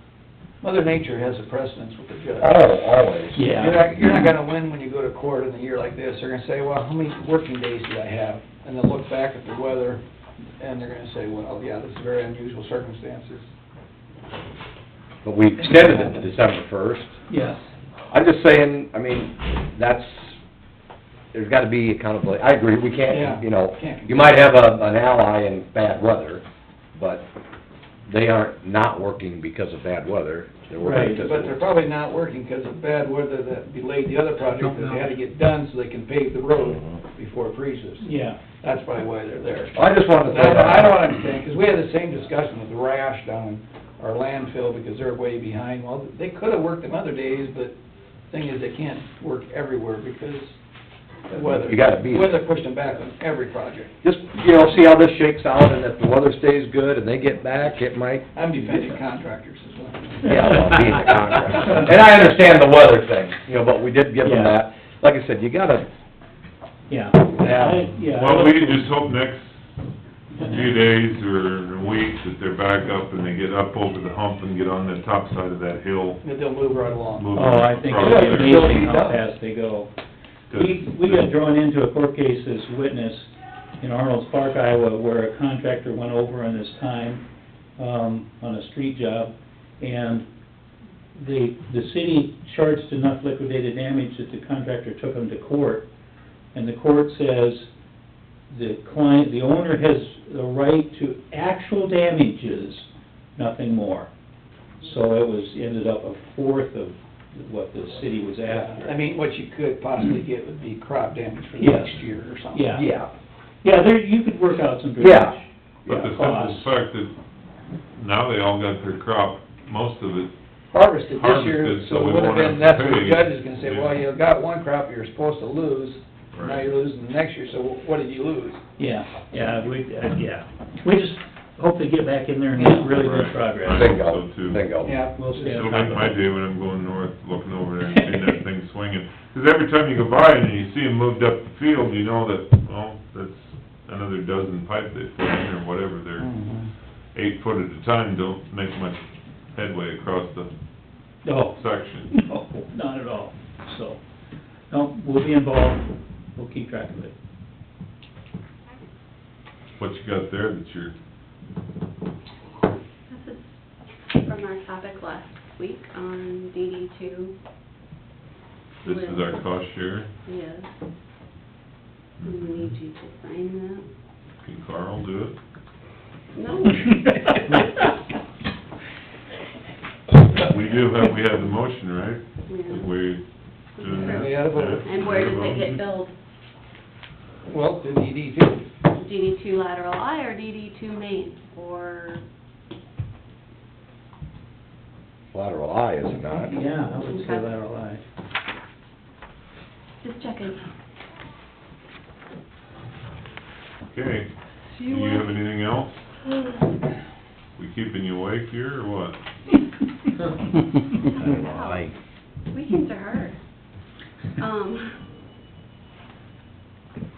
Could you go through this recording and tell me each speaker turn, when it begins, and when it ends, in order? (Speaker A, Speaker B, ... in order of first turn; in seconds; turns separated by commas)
Speaker A: 0.6-2.6, Speaker B: 2.4-3.4, Speaker C: 3.3-3.8, Speaker A: 3.5-10.0, Speaker A: 10.6-13.5, Speaker B: 15.2-17.1, Speaker C: 17.3-17.7, Speaker B: 18.1-20.4, Speaker B: 21.3-26.4, Speaker A: 23.1-24.2, Speaker B: 26.9-27.2, Speaker B: 28.1-31.6, Speaker C: 30.8-31.2, Speaker A: 31.2-47.8, Speaker C: 38.0-38.4, Speaker B: 39.7-40.9, Speaker A: 48.3-50.6, Speaker A: 51.3-53.9, Speaker B: 51.4-52.4, Speaker B: 54.0-58.2, Speaker A: 58.3-61.8, Speaker B: 60.2-65.9, Speaker C: 60.3-61.1, Speaker C: 64.2-64.6, Speaker C: 66.9-69.0, Speaker B: 67.4-67.8, Speaker D: 68.1-69.6, Speaker C: 70.3-70.7, Speaker D: 70.4-76.2, Speaker A: 76.2-77.4, Speaker D: 77.1-78.6, Speaker C: 77.3-79.9, Speaker A: 78.0-79.2, Speaker D: 80.5-81.2, Speaker C: 80.5-87.2, Speaker C: 87.8-90.2, Speaker C: 91.1-95.9, Speaker C: 96.5-97.7, Speaker C: 98.5-104.1, Speaker C: 104.8-108.9, Speaker A: 108.5-112.6, Speaker C: 111.6-112.9, Speaker B: 112.7-113.1, Speaker C: 113.6-116.7, Speaker B: 115.0-115.3, Speaker D: 115.8-117.1, Speaker D: 117.9-120.3, Speaker A: 120.7-128.6, Speaker D: 121.1-123.9, Speaker D: 126.3-126.6, Speaker C: 128.8-134.0, Speaker D: 132.6-134.6, Speaker B: 133.7-135.0, Speaker A: 134.8-135.8, Speaker C: 135.1-136.2, Speaker D: 135.5-146.4, Speaker C: 137.9-138.3, Speaker A: 146.2-146.7, Speaker D: 147.1-149.0, Speaker D: 149.5-150.5, Speaker C: 151.2-151.6, Speaker D: 151.5-152.1, Speaker C: 152.1-154.0, Speaker C: 154.7-157.1, Speaker D: 159.8-160.9, Speaker E: 163.1-163.5, Speaker E: 164.1-167.3, Speaker E: 168.8-169.4, Speaker D: 168.8-170.1, Speaker E: 170.2-170.7, Speaker D: 172.2-172.8, Speaker E: 172.2-173.9, Speaker D: 174.4-175.3, Speaker E: 176.3-176.9, Speaker C: 176.7-177.9, Speaker D: 180.4-185.8, Speaker E: 182.5-182.9, Speaker E: 183.8-186.1, Speaker A: 183.8-184.8, Speaker A: 187.5-188.7, Speaker E: 188.9-192.2, Speaker B: 195.3-196.6, Speaker C: 196.3-198.0, Speaker E: 196.9-197.5, Speaker E: 200.0-200.7, Speaker D: 203.8-206.1, Speaker E: 204.8-205.2, Speaker D: 207.6-209.2, Speaker E: 211.1-211.9, Speaker B: 211.1-211.9, Speaker E: 212.5-213.4, Speaker E: 214.4-215.0